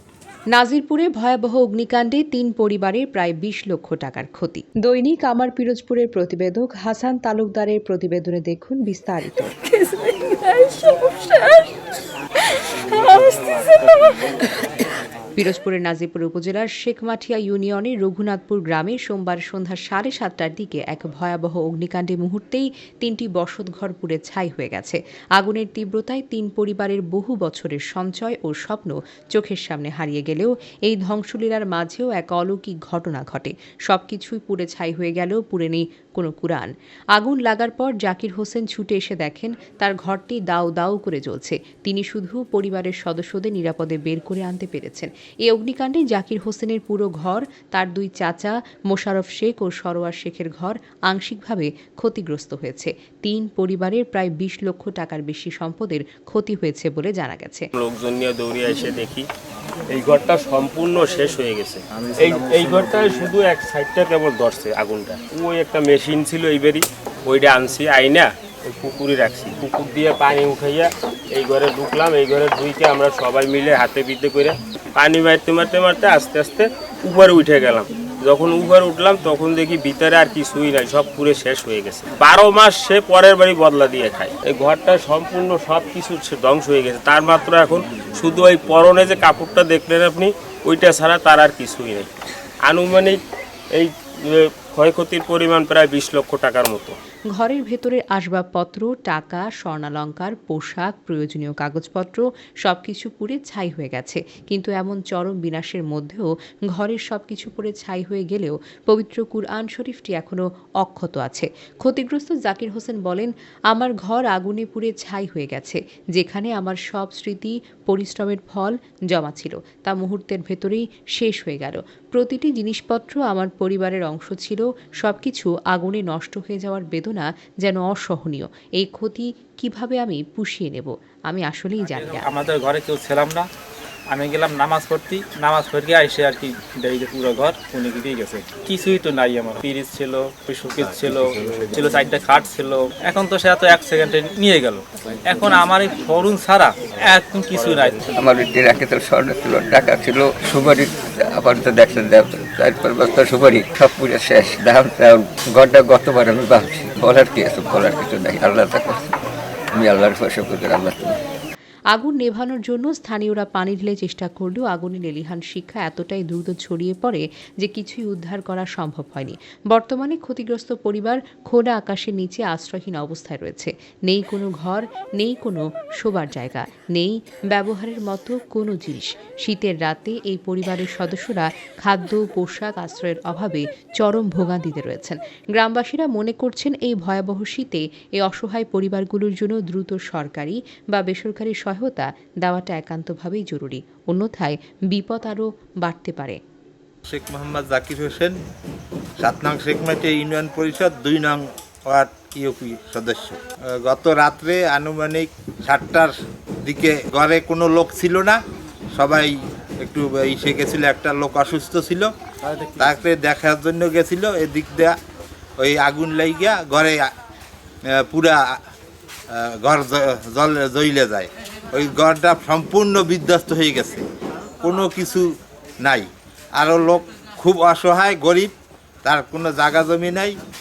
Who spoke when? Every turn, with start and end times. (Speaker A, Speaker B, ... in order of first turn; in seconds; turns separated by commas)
Speaker A: 0.5-9.6, Speaker B: 12.7-14.6, Speaker A: 15.4-57.7, Speaker B: 57.8-59.3, Speaker B: 59.9-92.1, Speaker C: 62.2-62.6, Speaker B: 92.6-93.2, Speaker B: 93.7-97.0, Speaker A: 97.3-132.3, Speaker C: 131.9-133.5, Speaker C: 134.1-148.0, Speaker D: 148.1-159.1, Speaker D: 159.8-161.2, Speaker A: 161.9-196.4, Speaker E: 197.1-198.4, Speaker E: 199.2-208.4, Speaker E: 209.0-212.1, Speaker E: 212.8-215.0, Speaker E: 215.6-217.1, Speaker E: 217.9-218.6, Speaker E: 219.3-224.0, Speaker E: 224.6-225.3, Speaker E: 225.8-228.5, Speaker E: 229.0-230.4